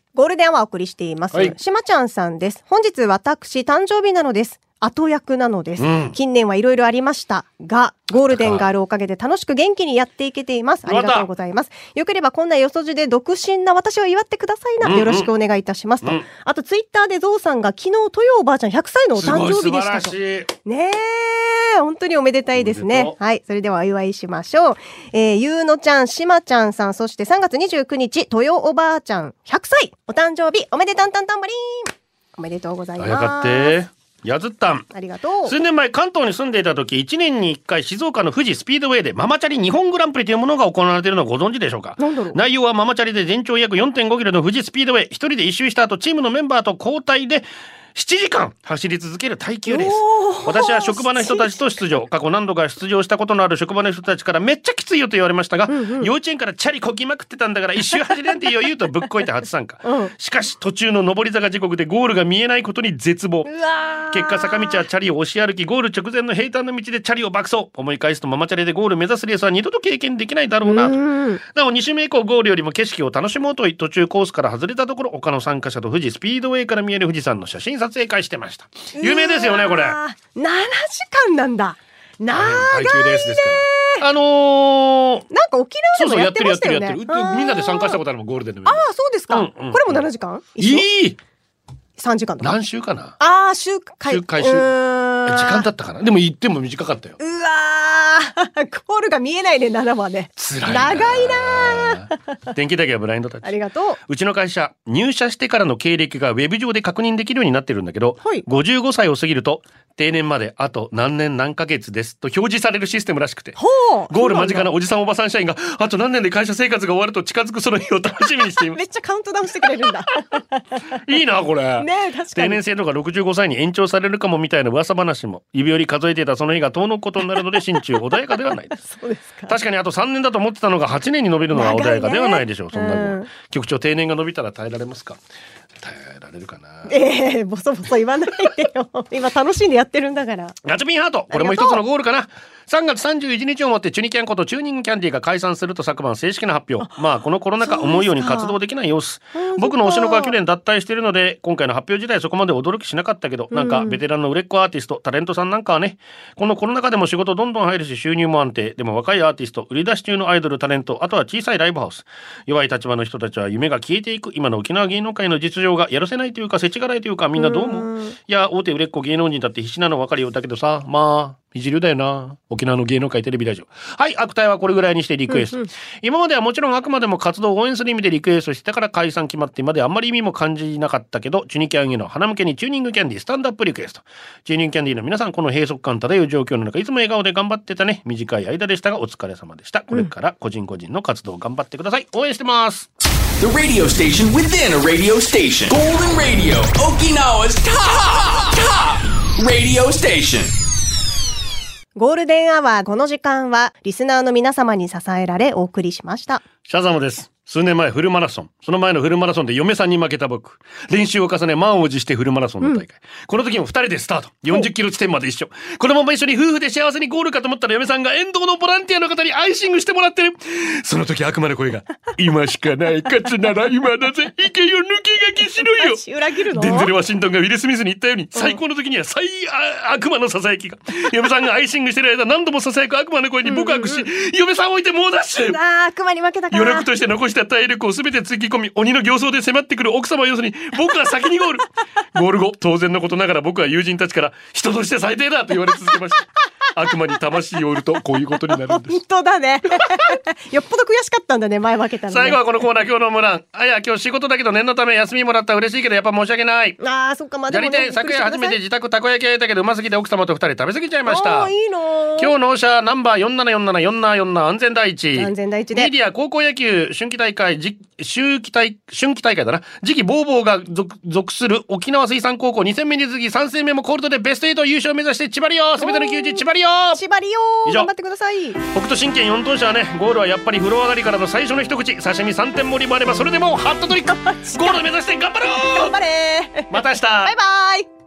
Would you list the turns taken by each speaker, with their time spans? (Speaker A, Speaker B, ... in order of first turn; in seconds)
Speaker A: 0.1-33.8, 34.9-35.5, 42.0-42.4, 49.7-51.6, 55.7-56.1, 59.8-60.1, 63.5-64.8, 70.6-71.4, 79.0-84.0, 85.3-88.0, 88.7-90.9, 92.0-92.5, 93.2-95.7, 97.2-102.1, 103.4-104.0, 113.6-114.7, 118.8-120.4, 121.8-122.6, 128.8-129.6, 131.5-133.3, 136.9-140.6, 141.3-141.8, 147.6-148.6, 149.3-150.4, 153.5-154.0, 167.4-168.2, 175.3-175.7, 202.0-206.4, 225.6-226.9, 228.3-228.6, 233.4-234.1, 235.5-236.9, 248.7-252.4, 256.8-258.6, 261.1-262.3, 265.2-265.9, 275.8-276.4, 276.9-278.6, 284.1-284.8, 285.6-286.7, 287.2-287.9
Speaker B: 5.8-6.2, 8.2-8.7, 10.9-11.3, 14.8-15.3, 19.2-20.5, 22.6-23.2, 33.0-34.9, 35.5-80.0, 82.3-85.3, 85.9-91.2, 92.4-93.2, 94.1-94.7, 95.3-97.2, 100.4-103.6, 104.1-113.6, 114.1-118.8, 121.0-128.8, 129.5-135.2, 135.8-137.0, 140.6-192.9, 206.7-235.6, 236.5-249.0, 249.8-250.1, 252.1-256.8, 257.5-261.5, 262.2-277.0, 277.6-277.9, 278.7-286.0, 286.7-287.4
Speaker C: 193.4-200.5